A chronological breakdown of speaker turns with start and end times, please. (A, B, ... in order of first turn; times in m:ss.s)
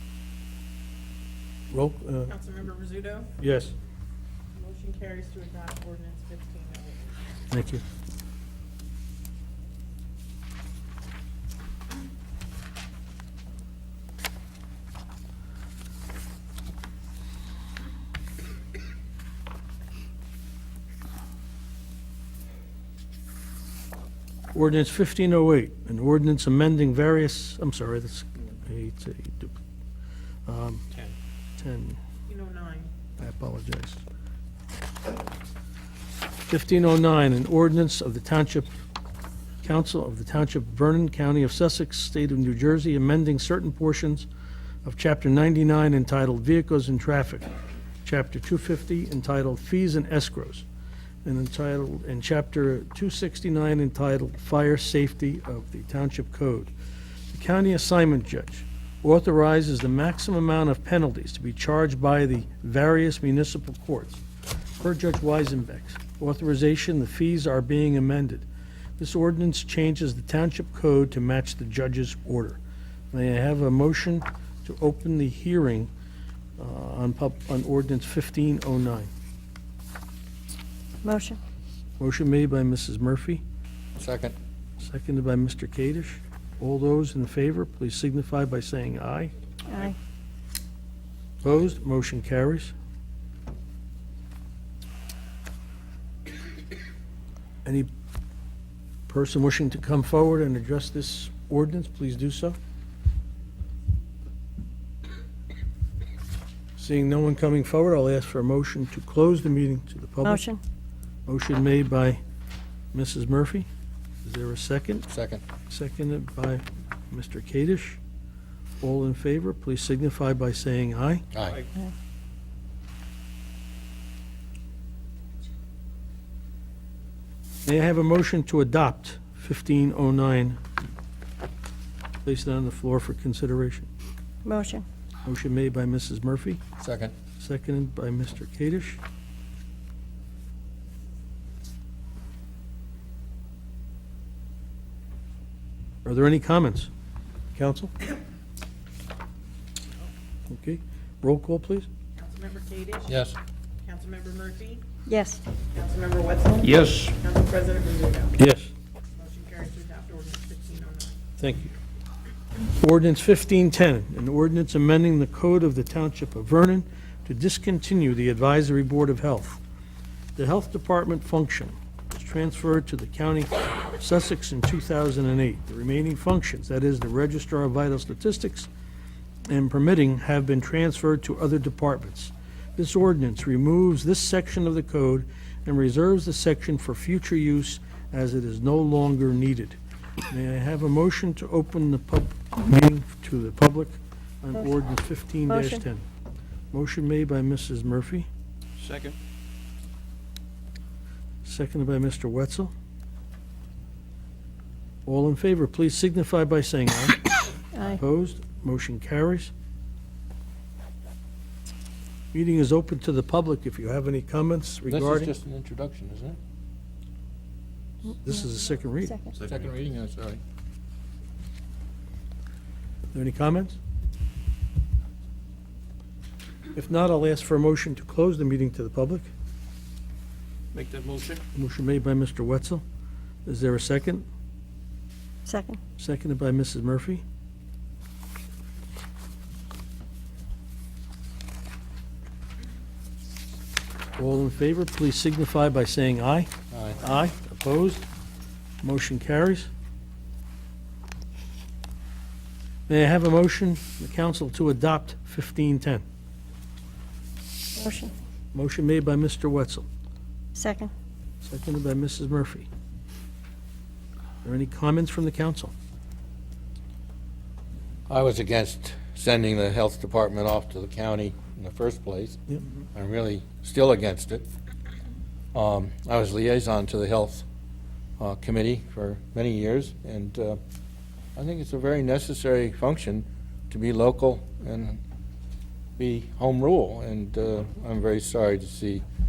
0:01.7-0:02.4 A
0:02.3-0:03.3 B
0:03.4-0:03.7 A
0:04.5-0:07.3 B
0:07.5-0:07.8 A
0:24.5-0:29.6 A
0:30.4-0:30.8 A
0:31.6-0:32.0 A
0:32.3-0:32.9 B
0:33.2-0:34.0 A
0:36.5-0:38.8 A
0:39.6-0:44.3 A
0:44.8-0:47.5 A
0:48.0-0:50.6 A
0:51.2-0:56.7 A
0:57.3-1:04.2 A
1:04.8-1:08.4 A
1:09.0-1:12.6 A
1:13.1-1:15.9 A
1:16.6-1:19.1 A
1:21.0-1:21.4 C
1:22.0-1:23.4 A
1:24.0-1:24.3 D
1:24.8-1:29.3 A
1:29.7-1:29.9 C
1:31.4-1:32.7 A
1:37.6-1:37.9 A
1:39.1-1:42.6 A
1:46.8-1:50.4 A
1:50.2-1:50.6 C
1:51.3-1:52.2 A
1:52.9-1:53.7 A
1:54.2-1:55.1 A
1:55.1-1:55.4 D
1:55.7-1:58.0 A
1:58.8-2:01.2 A
2:01.3-2:01.6 D
2:07.6-2:10.6 A
2:12.2-2:13.9 A
2:14.4-2:14.8 C
2:15.2-2:16.6 A
2:16.8-2:17.1 D
2:17.4-2:19.0 A
2:26.0-2:26.9 A
2:27.5-2:27.9 A
2:30.5-2:31.9 A
2:32.2-2:33.2 B
2:33.8-2:34.8 B
2:35.1-2:35.4 C
2:35.7-2:38.4 B
2:36.6-2:37.1 E
2:38.4-2:38.7 A
2:39.2-2:41.2 B
2:41.4-2:41.7 A
2:42.8-2:49.6 A
2:50.4-2:58.7 A
2:59.4-3:09.8 A
3:10.3-3:16.0 A
3:15.5-3:15.8 C
3:16.7-3:18.3 A
3:18.8-3:19.2 E
3:21.4-3:22.7 A
3:25.0-3:29.5 A
3:27.7-3:28.0 C
3:32.3-3:35.3 A
3:34.9-3:36.4 D
3:38.2-3:39.2 A
3:39.0-3:39.3 C
3:39.3-3:39.6 E
3:39.4-3:40.4 D
3:43.1-3:43.8 A
3:46.7-3:49.3 A
3:50.7-3:51.4 E
3:51.5-3:52.8 A
3:53.4-3:54.2 A
3:55.4-3:55.8 C
3:56.0-3:57.2 A
4:04.2-4:08.0 A
4:06.7-4:07.0 D
4:08.8-4:09.7 A
4:12.9-4:16.0 A
4:17.8-4:18.1 C
4:18.5-4:19.9 A
4:20.5-4:20.9 C
4:21.4-4:22.7 A
4:24.4-4:25.7 A
4:28.1-4:32.4 D
4:32.9-4:34.4 D
4:35.5-4:37.4 D
4:38.2-4:40.6 D
4:41.4-4:45.0 D
4:46.0-4:49.0 D